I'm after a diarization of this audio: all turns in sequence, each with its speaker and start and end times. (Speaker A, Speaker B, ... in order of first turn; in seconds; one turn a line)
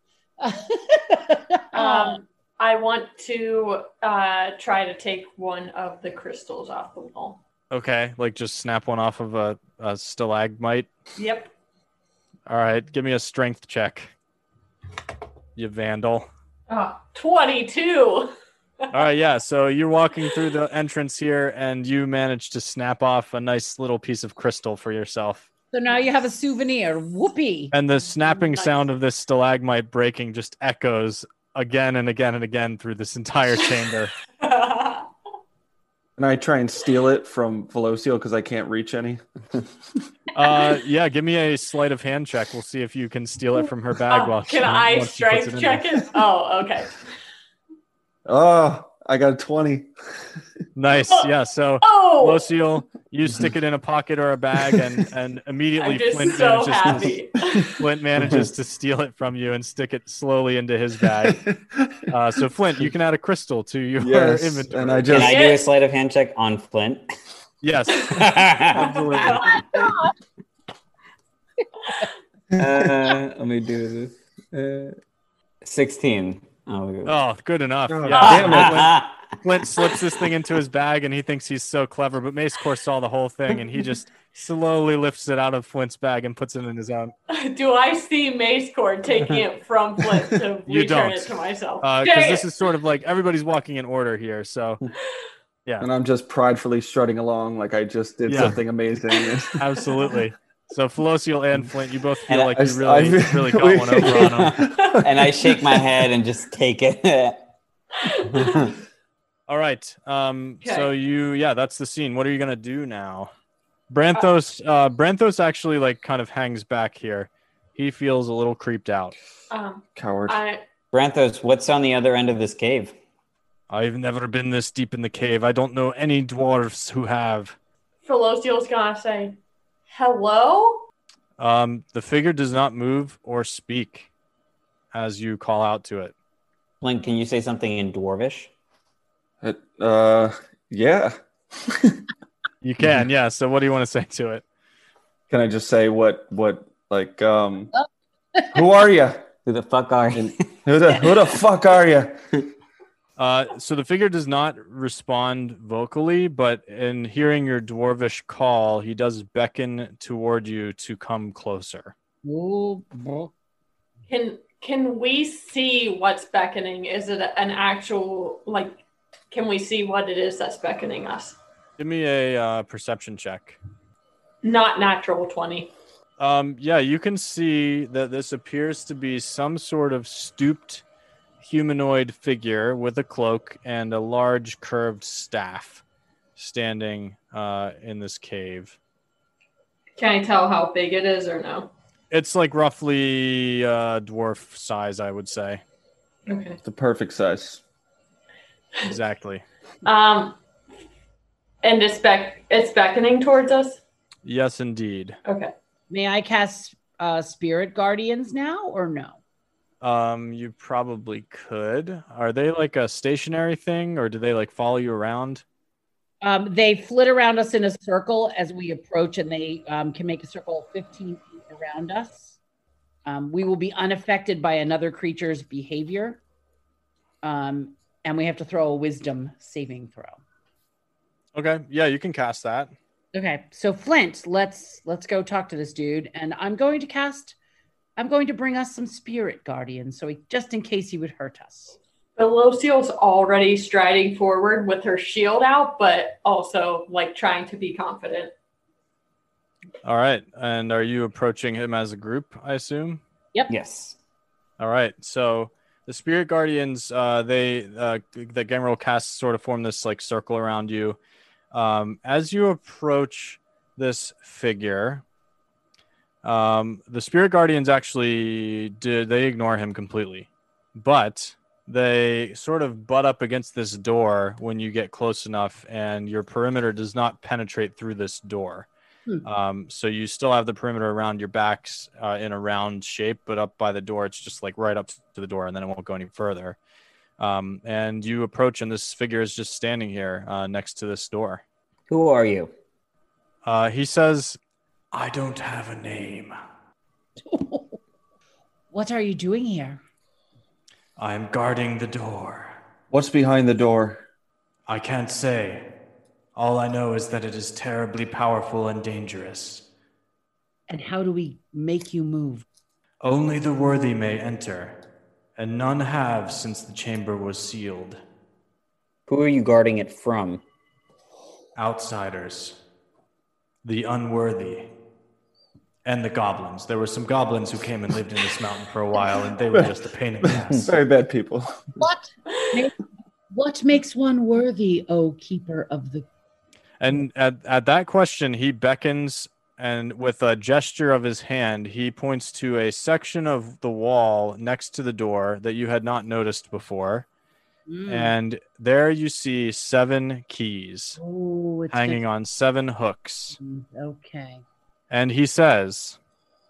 Speaker A: 0.4-2.2
Speaker B: 1.7-7.4
Speaker C: 7.7-10.9
Speaker B: 11.2-11.5
Speaker C: 12.5-14.1
Speaker C: 15.6-16.3
Speaker B: 16.7-18.9
Speaker C: 18.9-25.5
Speaker A: 25.7-27.7
Speaker C: 27.7-34.1
Speaker B: 28.4-28.7
Speaker B: 34.4-35.1
Speaker D: 36.2-39.2
Speaker C: 40.3-46.0
Speaker B: 44.1-47.0
Speaker D: 48.2-49.9
Speaker C: 50.8-61.5
Speaker B: 51.8-52.5
Speaker B: 55.8-57.8
Speaker E: 58.2-58.5
Speaker D: 61.2-61.9
Speaker C: 62.1-65.2
Speaker D: 64.0-65.4
Speaker E: 65.1-67.0
Speaker B: 65.1-65.7
Speaker C: 67.6-69.3
Speaker E: 68.1-69.6
Speaker D: 68.9-69.5
Speaker B: 69.2-69.6
Speaker A: 69.5-70.1
Speaker D: 72.5-73.0
Speaker E: 72.5-75.0
Speaker E: 75.6-77.1
Speaker C: 77.0-87.1
Speaker D: 77.9-78.9
Speaker B: 78.1-78.5
Speaker E: 78.2-80.0
Speaker B: 87.3-92.5
Speaker C: 90.7-94.8
Speaker D: 95.8-99.8
Speaker C: 98.3-98.6
Speaker C: 99.6-104.6
Speaker E: 102.3-102.6
Speaker D: 102.5-105.6
Speaker E: 104.1-107.5
Speaker B: 104.8-105.0
Speaker B: 108.0-108.7
Speaker E: 108.3-108.6
Speaker C: 109.5-113.3
Speaker B: 110.6-110.9
Speaker C: 113.9-119.1
Speaker B: 119.5-120.6
Speaker D: 120.0-120.4
Speaker E: 120.9-122.9
Speaker C: 123.7-127.5
Speaker B: 128.0-129.3
Speaker B: 129.9-130.8
Speaker C: 131.4-134.1
Speaker C: 134.9-136.1
Speaker E: 136.8-138.5
Speaker D: 139.4-142.0
Speaker C: 142.6-144.4
Speaker D: 145.3-147.7
Speaker A: 147.7-148.5
Speaker D: 148.5-149.2
Speaker E: 149.4-150.3
Speaker D: 150.1-152.2
Speaker C: 153.2-161.9
Speaker A: 162.2-163.3
Speaker B: 164.1-171.4
Speaker C: 171.8-173.6
Speaker B: 174.4-175.7
Speaker C: 176.2-180.8
Speaker C: 181.4-185.8
Speaker C: 186.3-188.8
Speaker B: 190.0-191.7
Speaker C: 192.1-195.6
Speaker B: 196.3-196.6
Speaker D: 196.6-197.6
Speaker C: 198.8-199.4
Speaker B: 199.8-200.4
Speaker B: 201.6-203.8
Speaker C: 204.2-205.2
Speaker B: 205.2-205.5
Speaker A: 205.9-209.2
Speaker C: 209.8-215.4
Speaker A: 216.2-222.3
Speaker A: 223.0-226.2
Speaker A: 227.2-230.2
Speaker C: 231.3-232.7
Speaker A: 233.1-237.3
Speaker A: 238.0-241.8
Speaker B: 242.2-248.3
Speaker C: 249.8-253.0
Speaker E: 253.5-254.0
Speaker C: 254.6-261.0
Speaker C: 261.5-265.0
Speaker C: 266.2-278.7
Speaker C: 279.2-286.6
Speaker C: 287.2-291.4
Speaker E: 291.9-292.5
Speaker C: 293.4-294.4
Speaker C: 294.9-296.3
Speaker A: 297.2-297.8
Speaker A: 298.7-299.8
Speaker C: 301.0-302.5
Speaker D: 302.9-304.0
Speaker C: 304.7-305.7
Speaker C: 306.3-309.6
Speaker A: 310.7-312.4
Speaker C: 313.0-314.8
Speaker C: 315.4-318.0
Speaker E: 319.1-320.4
Speaker C: 321.5-322.6
Speaker C: 323.6-324.7
Speaker C: 325.8-330.7
Speaker D: 330.2-331.7
Speaker A: 331.8-332.8
Speaker A: 333.3-336.1
Speaker C: 336.8-347.1
Speaker A: 347.7-348.1
Speaker C: 347.9-351.0
Speaker A: 351.0-352.0
Speaker C: 351.7-353.4
Speaker A: 353.4-354.4
Speaker C: 354.9-356.0